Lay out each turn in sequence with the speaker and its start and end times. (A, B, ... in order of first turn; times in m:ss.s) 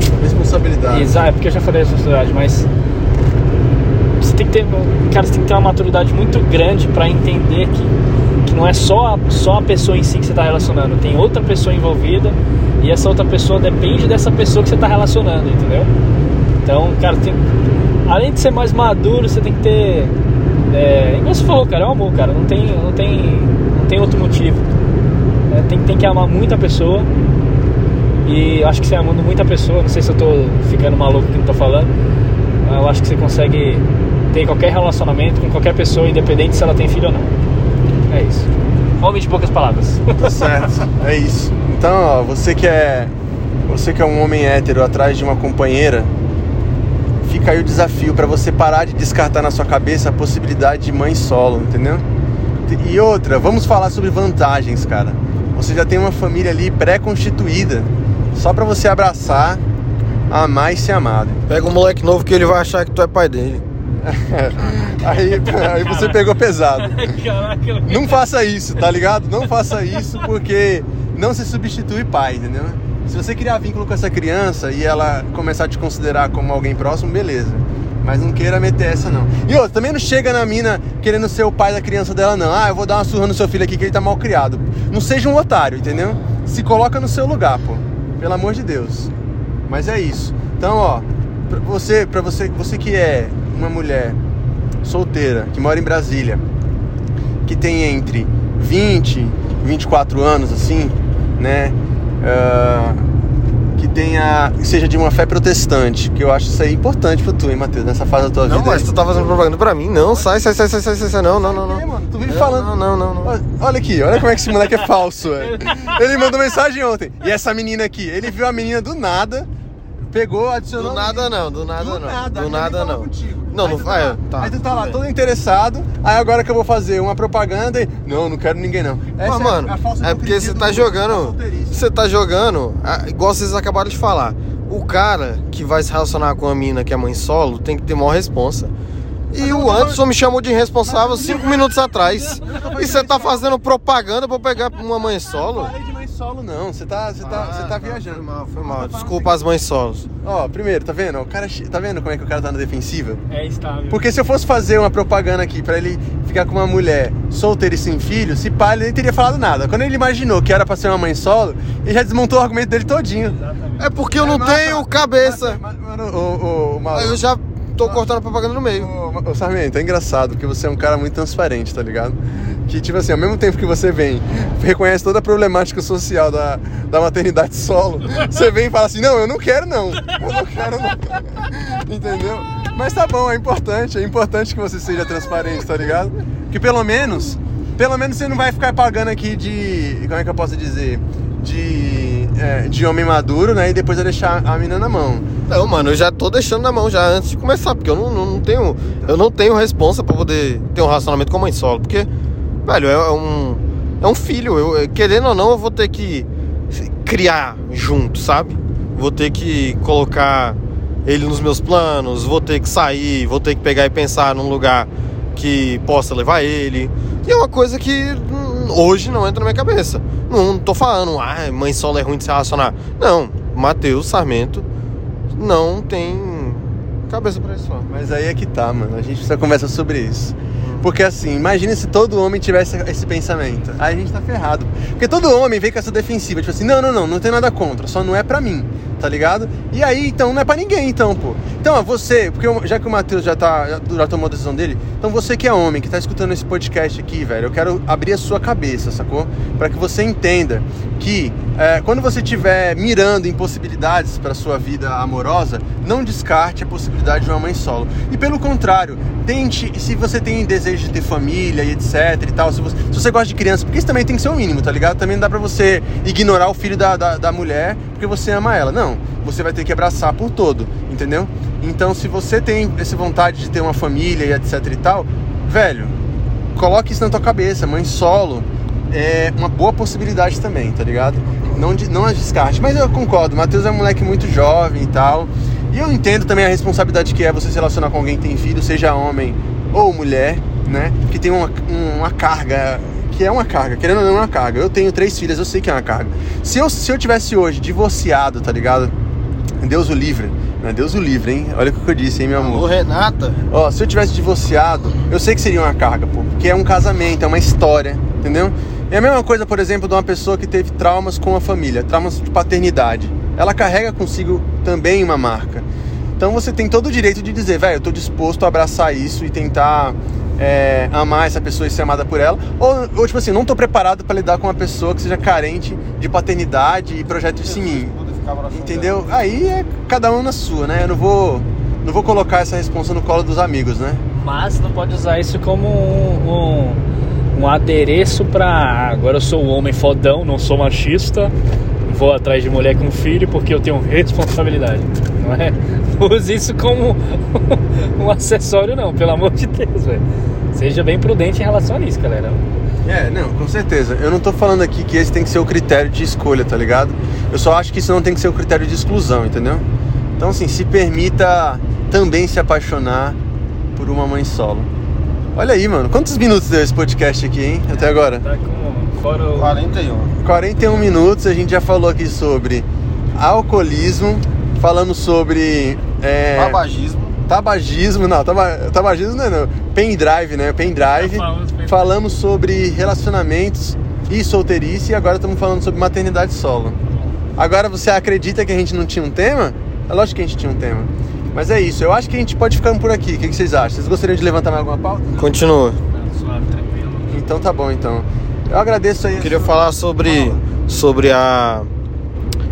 0:00.2-0:01.1 A
0:00.9-0:02.7 B
0:04.2-0:15.9 B
0:16.6-0:17.4 B
0:18.1-0:20.2 B
0:20.7-0:24.6 B
0:25.5-0:27.1 B
0:28.2-0:31.9 B
0:32.6-0:37.3 B
0:38.1-0:38.5 B
0:39.0-0:40.6 B
0:40.2-0:43.1 A
0:43.7-0:46.1 A
0:47.2-0:52.0 A
0:52.7-0:59.6 A
1:00.3-1:01.4 A
1:01.5-1:03.6 C
1:04.0-1:07.2 A
1:05.4-1:08.2 B
1:07.8-1:29.1 A
1:29.7-1:34.2 A
1:34.8-1:36.4 A
1:37.4-1:43.1 A
1:43.8-1:49.4 A
1:48.4-1:53.3 C
1:51.2-1:52.7 A
1:53.2-1:59.5 A
1:55.4-1:56.3 B
2:00.1-2:11.9 A
2:00.8-2:05.0 C
2:09.2-2:18.7 C
2:19.3-2:25.7 C
2:19.4-2:20.0 A
2:20.9-2:21.6 A
2:22.4-2:23.6 A
2:25.3-2:29.3 A
2:27.2-2:30.1 C
2:30.2-2:33.2 A
2:33.3-2:34.0 B
2:33.9-2:43.4 A
2:43.3-2:43.9 B
2:43.8-2:45.6 C
2:44.2-2:47.2 A
2:46.9-2:48.9 C
2:48.7-3:15.3 A
3:15.5-3:22.1 C
3:22.6-3:44.7 C
3:45.3-3:47.9 C
3:47.9-4:36.0 A
3:50.6-3:50.9 C
4:36.6-4:58.9 A
4:59.6-5:02.7 A
5:02.4-5:03.4 C
5:03.5-5:15.7 A
5:16.2-5:27.9 A
5:27.3-5:29.1 C
5:28.5-5:34.0 A
5:34.1-5:36.8 B
5:37.3-5:41.3 B
5:41.9-5:52.4 B
5:52.8-5:59.7 A
6:00.2-6:03.2 A
6:03.8-6:04.7 A
6:05.4-6:08.2 A
6:07.7-6:09.6 B
6:09.4-6:10.1 C
6:10.2-6:16.6 A
6:16.4-6:17.2 C
6:17.3-6:26.8 A
6:20.8-6:22.0 B
6:27.4-6:35.4 A
6:35.2-6:35.8 C
6:35.9-6:37.2 B
6:37.1-6:40.4 A
6:39.2-6:41.7 C